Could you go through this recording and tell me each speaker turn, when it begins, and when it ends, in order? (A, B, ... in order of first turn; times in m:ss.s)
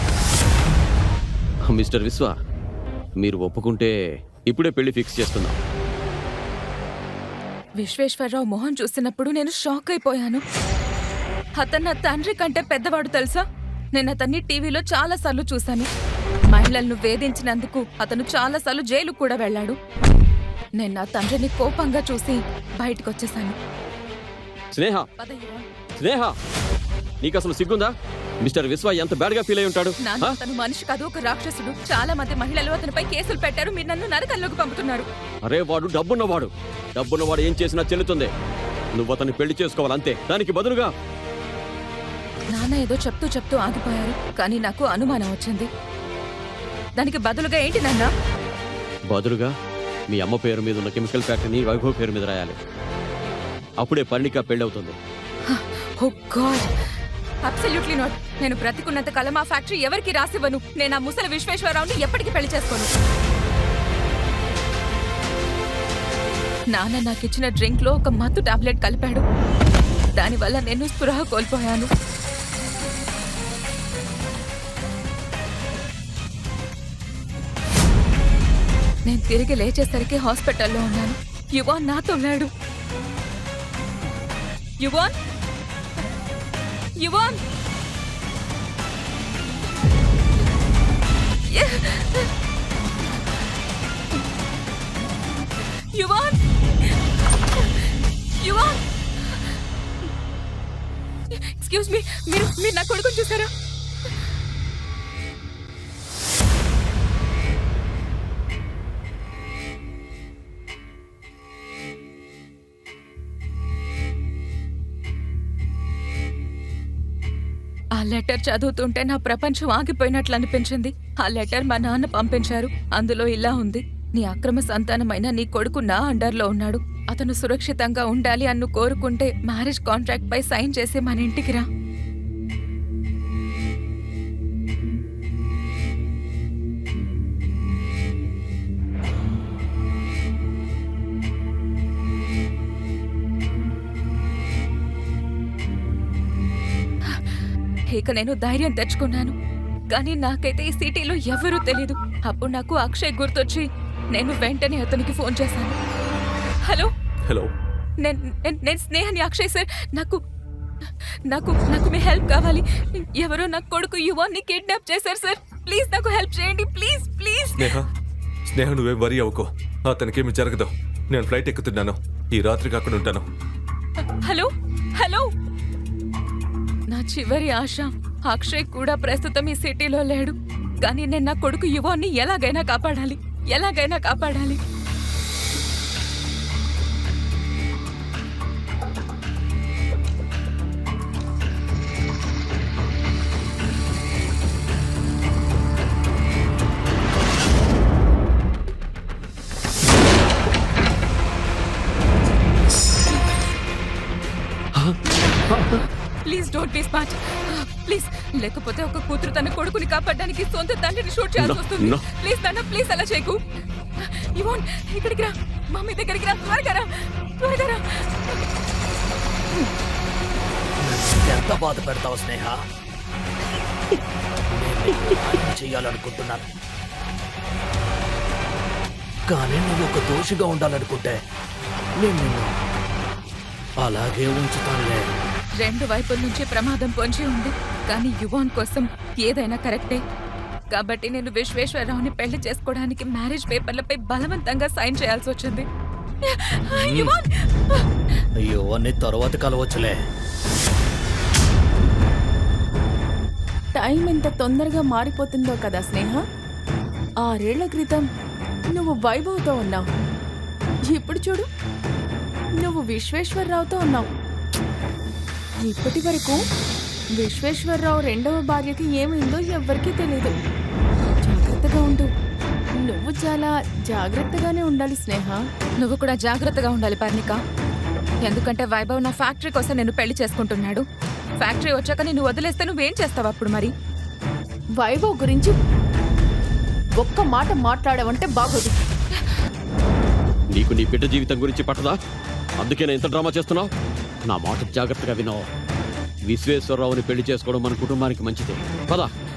0:01.7-0:02.3 A
0:03.2-0:03.9 A
0:04.4-0:05.6 A
0:07.8-0:10.4 B
0:11.6-0:13.4 B
0:13.9-0:15.9 B
0:16.5-0:19.8 B
0:20.8-0:23.6 B
0:24.7-0:25.1 A
0:25.2-0:25.7 B
0:26.0-0:26.3 A
0:27.2-0:30.3 A
0:30.0-0:35.1 B
0:35.4-0:38.3 A
0:39.0-0:40.9 A
0:42.5-0:45.7 B
0:47.0-0:48.1 B
0:49.1-0:49.5 A
0:50.1-0:52.6 A
0:53.8-0:55.0 A
0:55.5-0:56.7 B
0:57.4-1:02.9 B
1:06.7-1:09.2 B
1:10.2-1:11.9 B
1:19.0-1:22.5 B
1:24.8-1:25.1 B
1:27.0-1:27.4 B
1:31.4-1:32.3 B
1:35.9-1:37.0 B
1:37.5-1:39.6 B
1:41.3-1:43.5 B
1:58.0-2:11.6 B
2:27.9-2:29.3 B
2:29.9-2:35.8 B
2:37.2-2:37.5 C
2:38.0-2:40.2 B
2:41.3-2:47.8 B
2:47.6-2:47.9 C
2:48.5-2:53.3 C
2:54.0-2:55.3 B
2:56.9-3:04.6 B
3:25.5-3:25.8 A
3:26.2-3:33.4 B
3:31.4-3:32.0 A
3:34.0-3:38.4 B
3:40.8-3:42.6 D
3:44.5-3:46.5 D
3:49.3-3:51.2 D
3:52.0-3:52.6 D
3:53.8-3:55.1 D
3:55.6-4:00.0 B
4:00.7-4:05.6 B
4:06.2-4:07.8 B
4:06.7-4:07.1 D
4:08.4-4:10.0 D
4:13.7-4:16.2 E
4:17.2-4:18.1 E
4:18.7-4:19.8 E
4:20.9-4:21.4 E
4:22.6-4:24.0 E
4:25.6-4:26.4 E
4:27.2-4:30.4 E
4:31.2-4:32.1 E
4:32.8-4:35.4 E
4:35.8-4:37.4 B
4:38.2-4:40.8 B
4:41.4-4:43.7 B
4:44.8-4:45.5 E
4:47.0-4:48.8 E
4:50.5-4:52.0 A
4:52.6-4:53.7 A
4:54.3-4:55.5 A
4:56.2-4:59.1 A